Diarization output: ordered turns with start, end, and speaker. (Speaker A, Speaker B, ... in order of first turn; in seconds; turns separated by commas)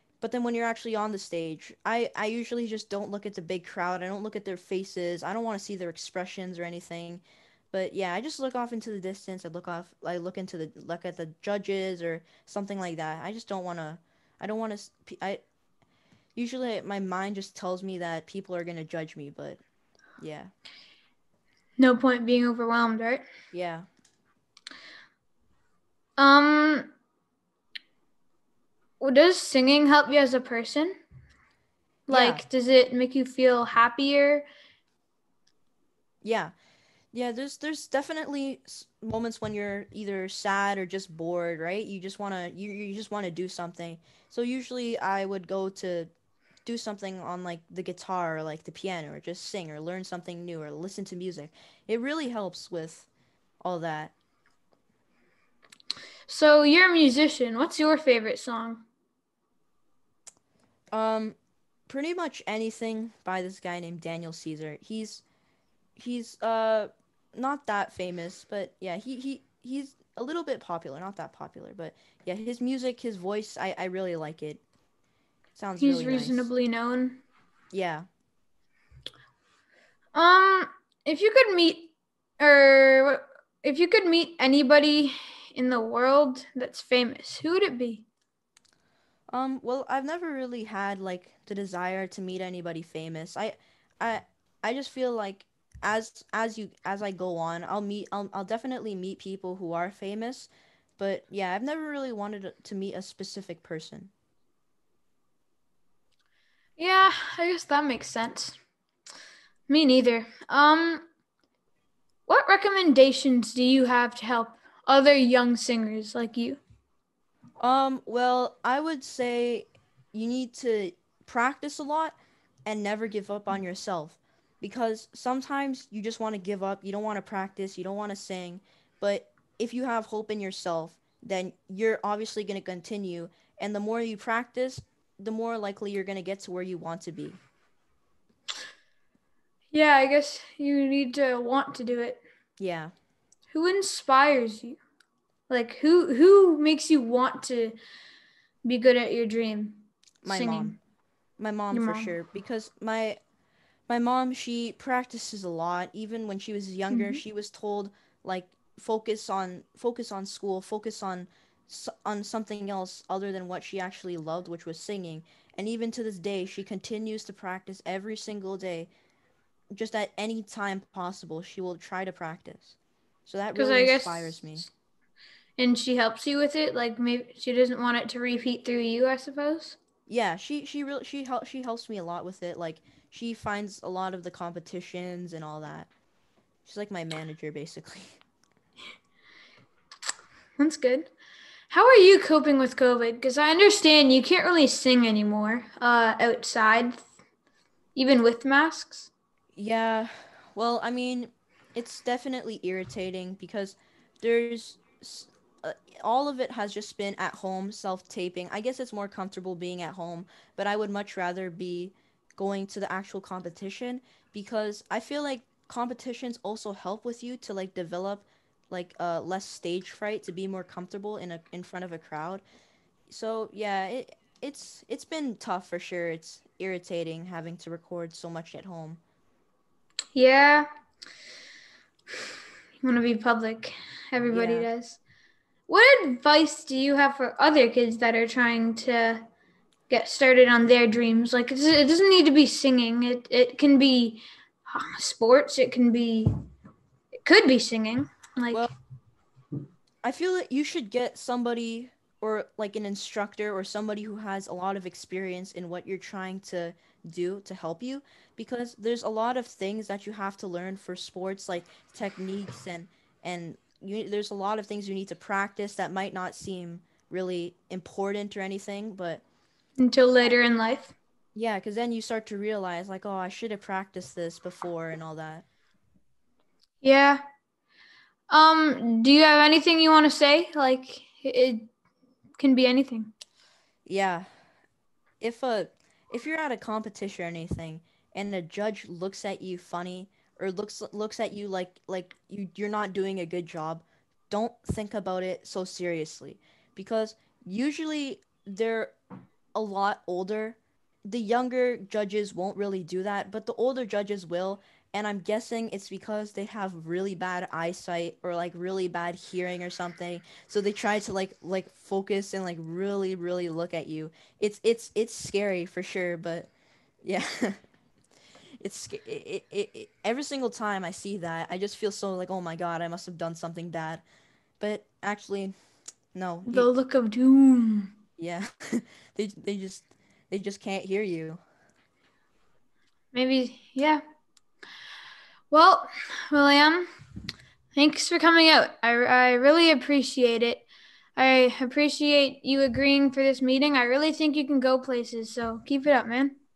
Speaker A: 0.2-15.4, Speaker A: 16.3-19.6, Speaker A: 20.2-20.5, Speaker B: 21.8-23.2, Speaker A: 23.5-23.9, Speaker B: 26.2-26.9, Speaker B: 29.0-31.0, Speaker A: 32.1-32.4, Speaker B: 32.1-34.5, Speaker A: 36.2-36.5, Speaker A: 37.1-46.1, Speaker A: 46.6-53.1, Speaker A: 53.6-54.1, Speaker B: 56.3-58.8, Speaker A: 60.9-61.4, Speaker A: 61.9-65.2, Speaker A: 66.0-74.6, Speaker A: 75.5-76.5, Speaker B: 75.8-77.2, Speaker A: 77.7-78.1, Speaker B: 80.1-88.0, Speaker A: 89.3-104.1, Speaker B: 106.8-108.6, Speaker B: 109.7-111.0, Speaker B: 112.3-116.6, Speaker A: 117.6-137.4, Speaker B: 139.7-142.2, Speaker A: 142.6-142.9, Speaker B: 143.5-144.8, Speaker B: 145.5-147.8, Speaker B: 148.6-150.8, Speaker A: 150.2-150.8, Speaker A: 151.4-153.2, Speaker B: 151.7-152.1, Speaker A: 153.9-168.9, Speaker B: 156.9-157.2, Speaker A: 169.7-174.7, Speaker B: 173.5-174.7, Speaker B: 175.6-179.8, Speaker A: 180.1-185.9, Speaker A: 186.6-188.2, Speaker B: 190.6-191.1, Speaker B: 191.7-197.0, Speaker B: 197.9-199.1, Speaker A: 199.5-222.4, Speaker A: 223.1-229.0, Speaker B: 230.1-230.7, Speaker B: 232.8-235.0, Speaker A: 234.3-234.7, Speaker B: 235.7-239.3, Speaker B: 239.9-246.3, Speaker B: 247.2-248.7, Speaker A: 250.0-269.2, Speaker B: 269.8-270.9, Speaker A: 271.3-275.4, Speaker B: 276.8-277.2, Speaker B: 278.3-281.7, Speaker B: 282.4-283.1, Speaker A: 283.9-284.3, Speaker A: 285.2-298.9, Speaker A: 299.5-316.5, Speaker A: 317.0-317.6, Speaker A: 318.6-324.0, Speaker A: 324.6-325.6, Speaker A: 326.1-326.7, Speaker B: 326.5-327.9, Speaker A: 328.2-331.4, Speaker B: 333.1-334.0, Speaker B: 335.5-336.9, Speaker B: 337.7-340.6, Speaker B: 341.1-346.4